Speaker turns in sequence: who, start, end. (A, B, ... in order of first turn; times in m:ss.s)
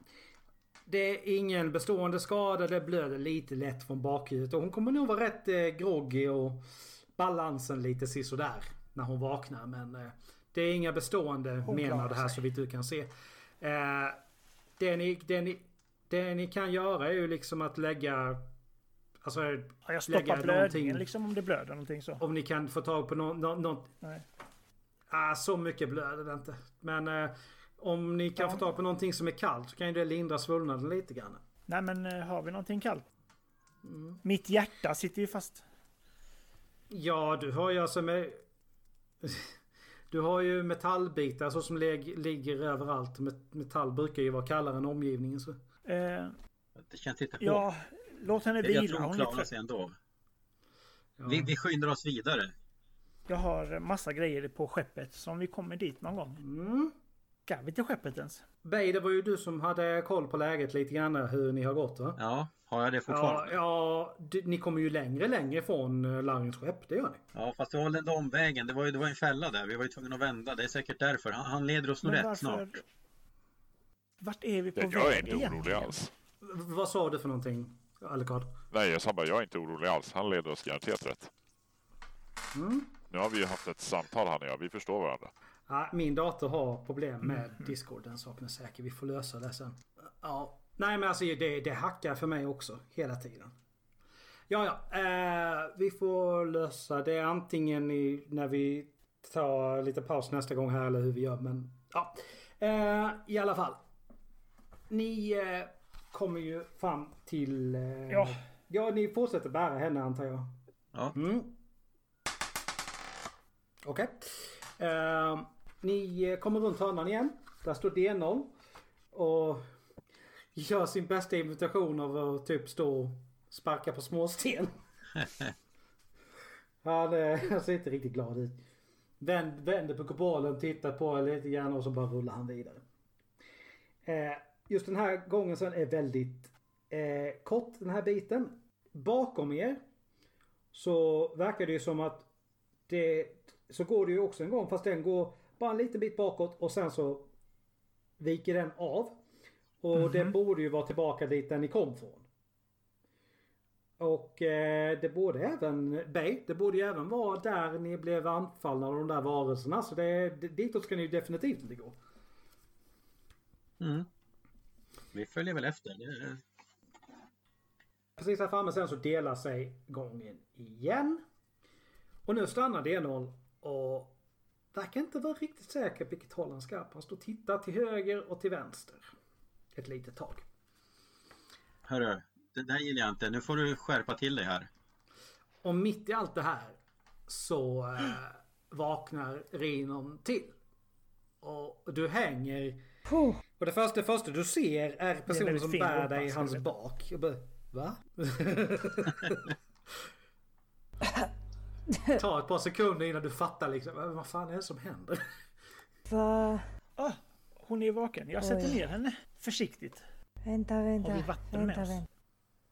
0:00.9-0:06.6 A
0:07.2-0:14.2 A
0:11.6-0:12.4 B
0:14.8-0:18.5 A
0:19.2-0:21.0 A
0:19.8-0:22.2 B
0:22.2-0:23.9 A
0:25.1-0:31.4 A
0:31.7-0:33.0 B
0:33.8-0:34.2 A
0:34.2-0:35.6 B
0:36.9-0:38.4 A
0:39.2-0:39.5 A
0:40.1-0:45.6 A
0:45.8-0:46.3 B
0:46.8-0:47.6 C
0:47.4-0:49.5 B
0:48.6-0:49.9 C
0:51.2-0:51.5 A
0:51.3-0:52.5 C
0:53.3-0:56.4 B
0:56.4-0:56.9 A
0:57.5-0:58.4 B
0:58.6-1:02.2 A
1:02.2-1:03.5 C
1:03.1-1:07.2 A
1:07.3-1:12.7 C
1:12.0-1:12.8 B
1:14.2-1:16.0 B
1:14.8-1:16.1 D
1:16.4-1:18.6 A
1:18.7-1:21.3 D
1:22.5-1:22.9 A
1:23.1-1:25.3 D
1:25.7-1:33.5 A
1:34.5-1:43.8 A
1:44.9-1:50.5 A
1:48.1-1:48.4 B
1:51.1-1:51.5 A
1:53.8-1:58.5 A
1:59.1-1:59.6 A
2:00.5-2:04.8 A
2:06.8-2:08.6 A
2:09.2-2:12.8 A
2:14.0-2:19.8 A
2:20.7-2:22.3 A
2:22.9-2:27.3 A
2:28.2-2:29.2 A
2:29.8-2:32.2 A
2:30.0-2:30.3 B
2:34.0-2:42.0 A
2:43.8-2:44.1 C
2:45.1-2:46.4 C
2:48.2-2:51.2 A
2:52.2-2:54.2 A
2:54.7-2:59.1 A
2:59.7-3:00.4 A
3:01.8-3:04.7 C
3:05.6-3:10.6 A
3:11.4-3:12.8 A
3:13.1-3:13.4 E
3:13.6-3:19.5 A
3:15.3-3:16.6 B
3:21.9-3:22.2 E
3:22.2-3:25.2 A
3:26.1-3:26.7 E
3:27.0-3:30.0 B
3:28.4-3:28.8 E
3:30.4-3:32.1 E
3:31.0-3:32.0 B